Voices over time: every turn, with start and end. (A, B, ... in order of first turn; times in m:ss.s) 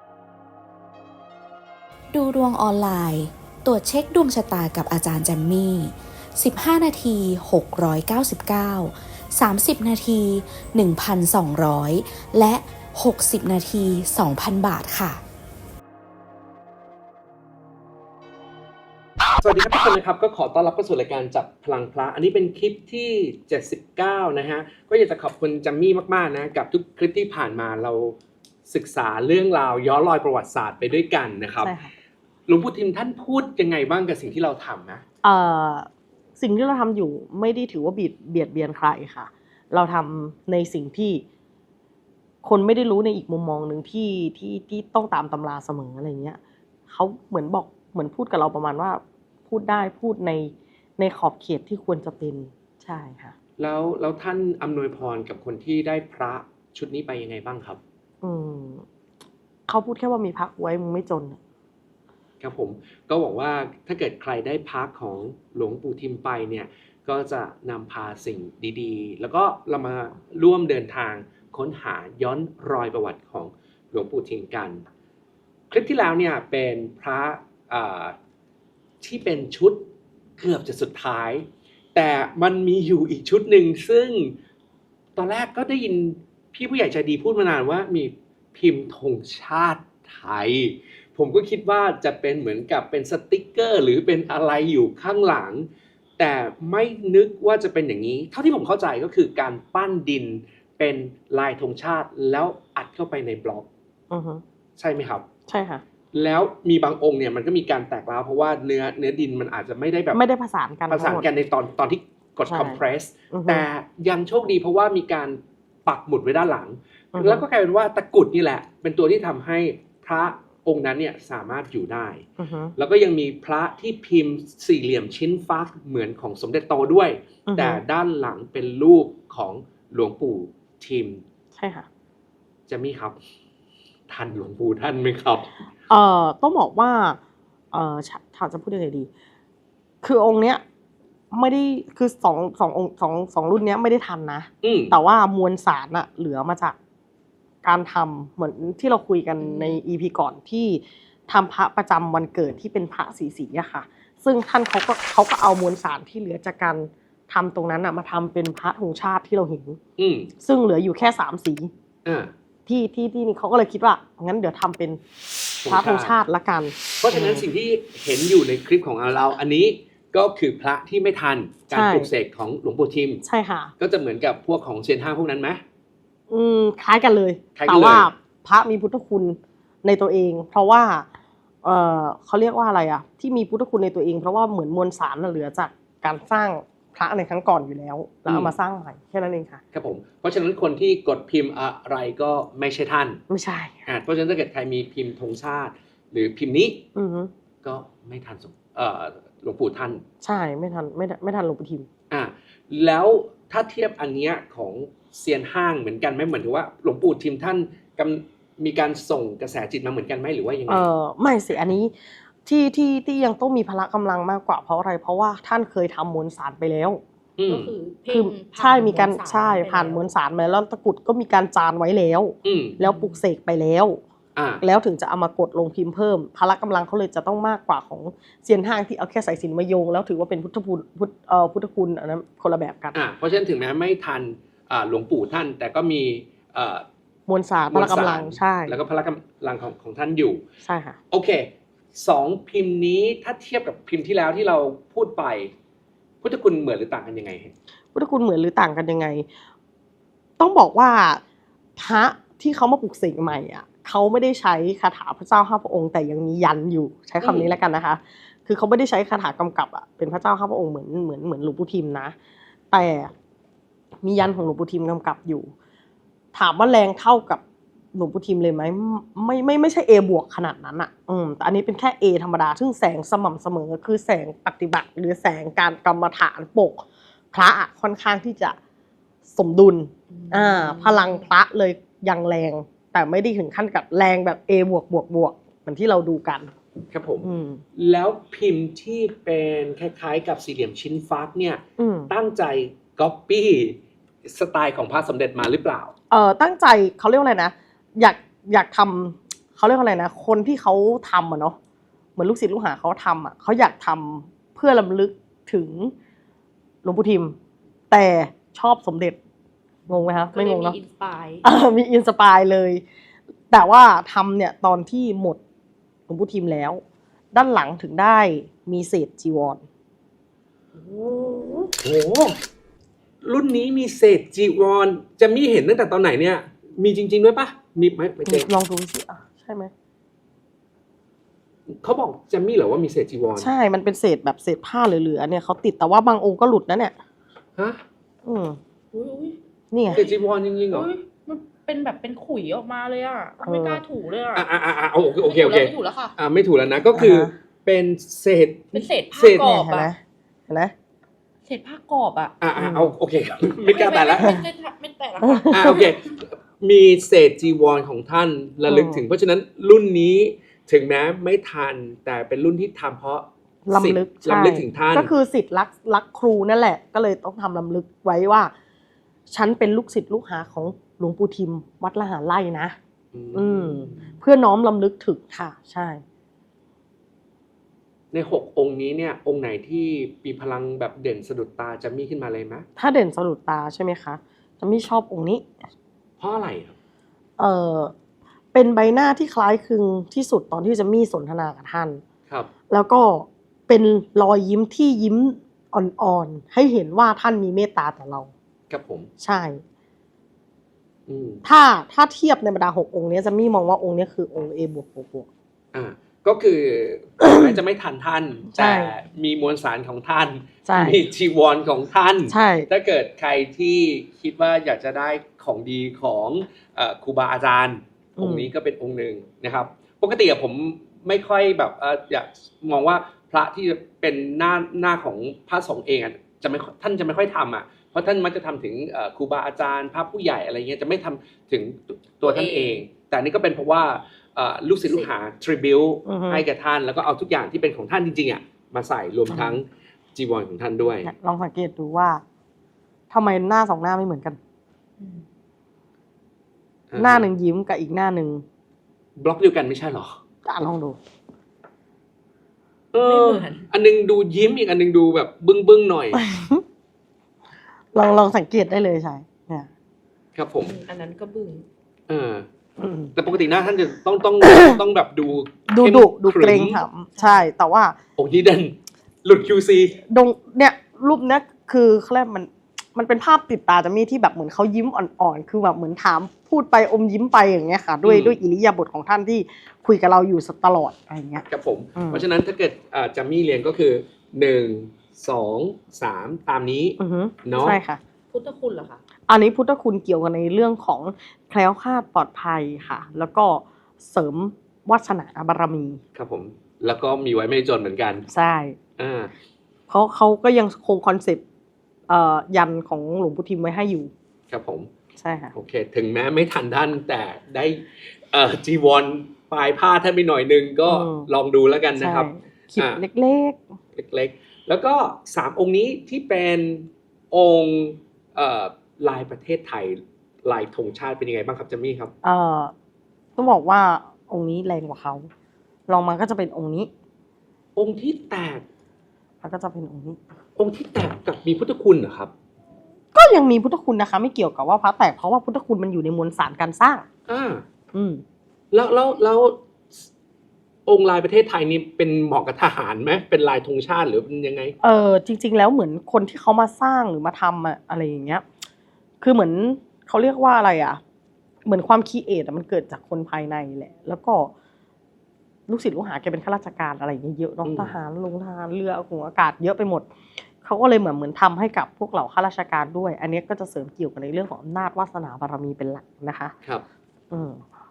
0:02.1-0:15.2 A
0:19.4-0:31.7 B
0:31.6-0:31.9 C
0:32.5-0:35.0 B
0:35.2-0:41.2 C
0:42.4-0:53.3 C
0:53.6-0:57.8 B
0:58.2-0:58.8 C
0:59.7-1:01.4 C
1:02.4-1:14.8 B
1:15.7-1:18.1 B
1:19.0-1:19.8 B
1:20.4-1:24.3 B
1:25.2-1:43.7 B
1:44.1-1:44.4 C
1:44.8-1:45.2 B
1:45.5-1:45.8 C
1:46.1-1:50.2 B
1:50.1-1:51.3 C
1:50.9-2:02.2 B
1:52.5-1:53.6 C
1:57.1-1:57.4 C
2:02.4-2:02.7 C
2:02.8-2:11.2 B
2:07.5-2:07.8 C
2:11.5-2:11.9 C
2:12.7-2:13.2 B
2:14.1-2:15.6 B
2:15.9-2:17.2 C
2:17.7-2:19.1 C
2:20.0-2:20.6 C
2:21.3-2:26.7 C
2:24.6-2:24.9 B
2:27.6-2:39.8 C
2:40.0-2:40.3 B
2:40.4-2:41.7 C
2:42.0-2:42.3 B
2:42.6-2:45.0 C
2:45.6-2:46.2 B
2:45.7-2:47.4 C
2:47.0-2:53.2 B
2:51.7-2:52.1 C
2:53.2-2:53.7 C
2:53.8-2:55.6 B
2:56.3-3:01.1 C
2:57.6-2:58.1 B
3:01.6-3:09.6 C
3:08.3-3:08.5 B
3:09.7-3:13.2 B
3:13.3-3:13.8 C
3:13.8-3:16.8 B
3:16.9-3:17.3 C
3:17.6-3:20.0 B
3:20.2-3:21.9 C
3:22.1-3:30.9 B
3:30.7-3:37.0 C
3:37.4-3:37.7 B
3:37.4-3:40.0 D
3:38.1-3:44.0 C
3:42.4-3:42.8 B
3:42.9-3:43.2 D
3:44.4-3:44.6 B
3:44.6-3:53.0 C
3:52.9-3:56.8 B
3:57.3-3:58.8 C
3:57.7-4:00.4 B
4:00.6-4:01.0 C
4:01.1-4:05.5 B
4:06.2-4:07.5 B
4:07.9-4:09.3 C
4:10.4-4:11.2 C
4:11.8-4:22.1 C
4:17.2-4:17.5 B
4:22.7-4:23.1 C
4:24.0-4:25.5 C
4:26.3-4:27.4 C
4:27.9-4:38.6 C
4:39.3-4:46.5 C
4:40.1-4:41.2 D
4:46.9-4:55.9 B
4:47.2-4:47.6 C
4:51.8-4:52.1 C
4:56.1-5:01.6 C
5:02.2-5:05.9 C
5:06.8-5:07.4 C
5:07.9-5:09.2 C
5:09.9-5:10.8 C
5:10.3-5:11.4 D
5:11.4-5:12.8 C
5:13.5-5:15.4 C
5:16.1-5:16.8 C
5:17.3-5:19.6 C
5:20.7-5:21.7 D
5:21.8-5:22.4 B
5:23.2-5:28.5 B
5:28.2-5:29.7 C
5:31.7-5:33.5 B
5:33.4-5:36.9 C
5:37.6-5:37.8 B
5:38.2-5:38.6 C
5:38.9-5:39.4 D
5:39.7-5:40.0 C
5:39.9-5:40.9 B
5:40.7-5:44.5 D
5:43.4-5:43.8 C
5:44.3-5:49.4 B
5:45.2-5:46.1 D
5:46.9-5:47.3 C
5:48.7-5:49.9 D
5:49.3-5:50.7 C
5:51.4-5:52.4 D
5:52.4-5:54.4 B
5:52.6-5:52.9 C
5:53.7-5:55.4 D
5:55.2-5:55.8 C
5:55.5-6:05.1 B
5:58.6-5:59.0 C
6:03.6-6:08.5 C
6:09.3-6:12.8 C
6:13.1-6:14.0 B
6:13.3-6:16.0 C
6:18.1-6:22.6 B
6:22.8-6:25.5 C
6:26.2-6:26.8 B
6:27.4-6:27.9 C
6:28.5-6:32.0 C
6:32.7-6:38.3 C
6:38.7-6:39.1 B
6:39.2-6:39.6 C
6:41.1-6:41.4 B
6:41.4-6:45.3 C
6:45.7-7:21.1 B
6:47.2-6:47.5 C
6:48.5-6:48.9 C
6:50.6-6:51.0 C
6:52.3-6:52.7 C
6:58.2-6:58.5 C
7:12.2-7:12.8 D
7:14.8-7:15.1 D
7:16.0-7:16.4 C
7:19.3-7:19.6 C
7:21.0-7:22.2 C
7:23.1-7:24.4 C
7:26.9-7:27.3 B
7:27.0-7:28.4 C
7:29.2-7:30.2 B
7:30.4-7:31.0 C
7:32.9-7:36.2 B
7:33.0-7:33.7 D
7:36.1-7:36.6 C
7:37.9-7:39.7 C
7:40.3-7:40.8 B
7:40.6-7:41.6 D
7:42.1-7:42.4 B
7:42.8-7:43.1 C
7:43.1-7:46.8 B
7:44.5-7:44.8 C
7:45.7-7:47.9 C
7:47.2-7:47.4 D
7:48.2-7:50.0 B
7:50.1-8:02.2 C
7:58.0-7:58.4 B
8:01.5-8:07.8 B
8:07.0-8:08.0 C
8:08.3-8:09.0 D
8:09.3-8:16.0 C
8:16.1-8:18.2 B
8:18.3-8:18.8 C
8:19.0-8:19.3 B
8:19.9-8:21.4 C
8:22.1-8:24.1 C
8:24.5-8:24.9 B
8:25.2-8:25.5 C
8:25.5-8:33.0 B
8:30.8-8:31.3 C
8:32.0-8:33.6 C
8:34.0-8:42.1 B
8:42.2-8:42.7 C
8:43.4-8:45.3 C
8:45.9-8:46.9 C
8:47.8-8:48.6 B
8:49.4-8:50.2 C
8:50.6-8:52.3 B
8:53.1-8:57.0 C
8:57.3-8:57.6 B
8:57.9-8:58.2 C
8:58.7-8:59.6 B
9:00.8-9:04.7 B
9:04.8-9:08.4 C
9:09.2-9:11.0 C
9:11.6-9:14.5 C
9:15.7-9:26.5 C
9:17.6-9:17.9 B
9:27.3-9:27.6 C